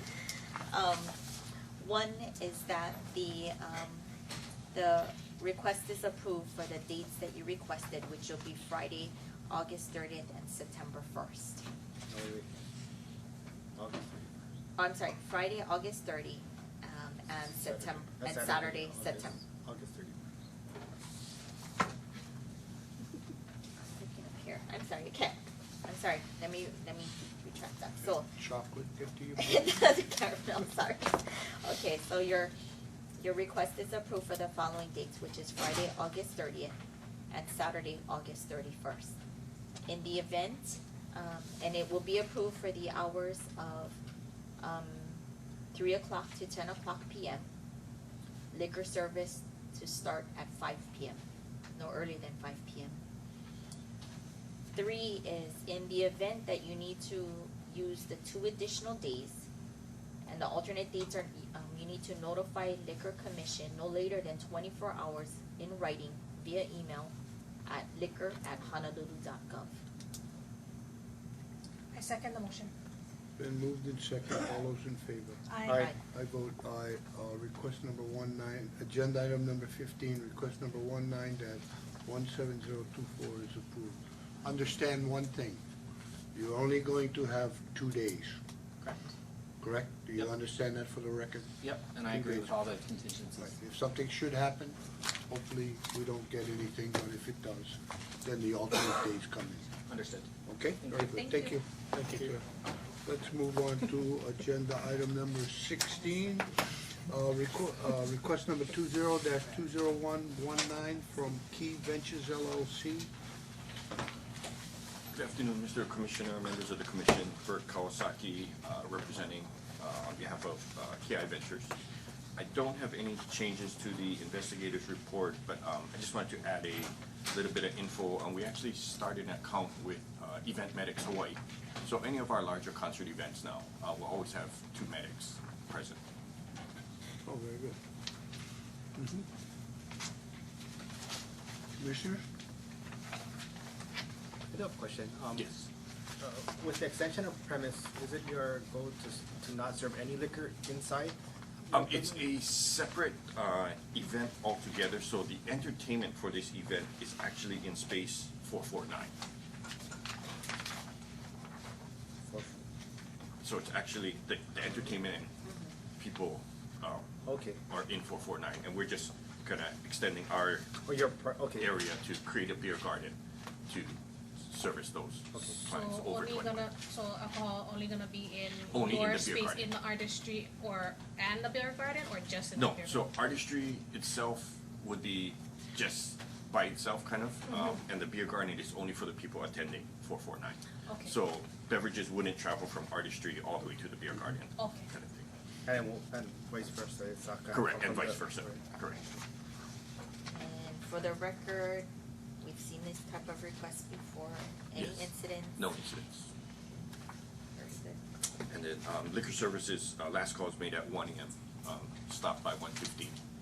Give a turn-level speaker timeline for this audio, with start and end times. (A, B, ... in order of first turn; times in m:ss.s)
0:00.7-0:01.2 A
0:01.8-0:04.1 A
0:04.7-0:11.6 A
0:12.1-0:12.5 B
0:13.7-0:14.3 B
0:14.8-0:19.4 A
0:17.6-0:20.2 B
0:23.8-0:28.4 A
0:28.0-0:29.8 C
0:29.4-0:32.5 A
0:33.2-0:36.8 A
0:37.3-0:39.2 A
0:39.9-0:44.0 A
0:44.6-0:47.5 A
0:48.5-0:51.2 A
0:51.7-0:53.0 A
0:54.7-0:59.5 A
1:00.2-1:07.1 A
1:07.6-1:09.8 A
1:11.9-1:12.7 D
1:13.4-1:25.6 C
1:15.5-1:15.8 D
1:15.7-1:16.0 A
1:26.3-1:28.4 C
1:28.8-1:29.1 E
1:29.6-1:32.5 C
1:31.6-1:33.5 E
1:33.4-1:34.8 C
1:35.3-1:39.7 C
1:39.9-1:40.3 E
1:40.4-1:42.4 C
1:40.8-1:41.2 E
1:41.1-1:41.6 D
1:42.0-1:42.4 E
1:43.0-1:53.1 C
1:55.1-2:01.7 F
2:02.4-2:16.0 F
2:17.2-2:17.8 C
2:19.0-2:19.3 C
2:21.8-2:22.2 C
2:24.5-2:25.6 B
2:26.2-2:31.2 B
2:31.7-2:32.2 B
2:31.7-2:39.1 F
2:42.2-2:42.6 B
2:43.4-2:45.3 F
2:45.4-2:45.8 A
2:46.0-2:50.8 F
2:47.2-2:47.6 B
2:50.8-2:51.7 B
2:51.5-2:53.1 F
2:53.7-2:56.7 F
2:55.3-2:55.7 B
2:55.6-3:03.1 D
2:58.7-2:59.7 F
3:02.5-3:15.3 F
3:10.9-3:11.2 D
3:14.6-3:14.9 D
3:15.6-3:18.6 B
3:17.5-3:19.1 F
3:20.3-3:21.9 A
3:22.4-3:25.6 A
3:24.7-3:26.3 F
3:27.6-3:28.0 A
3:28.5-3:33.2 F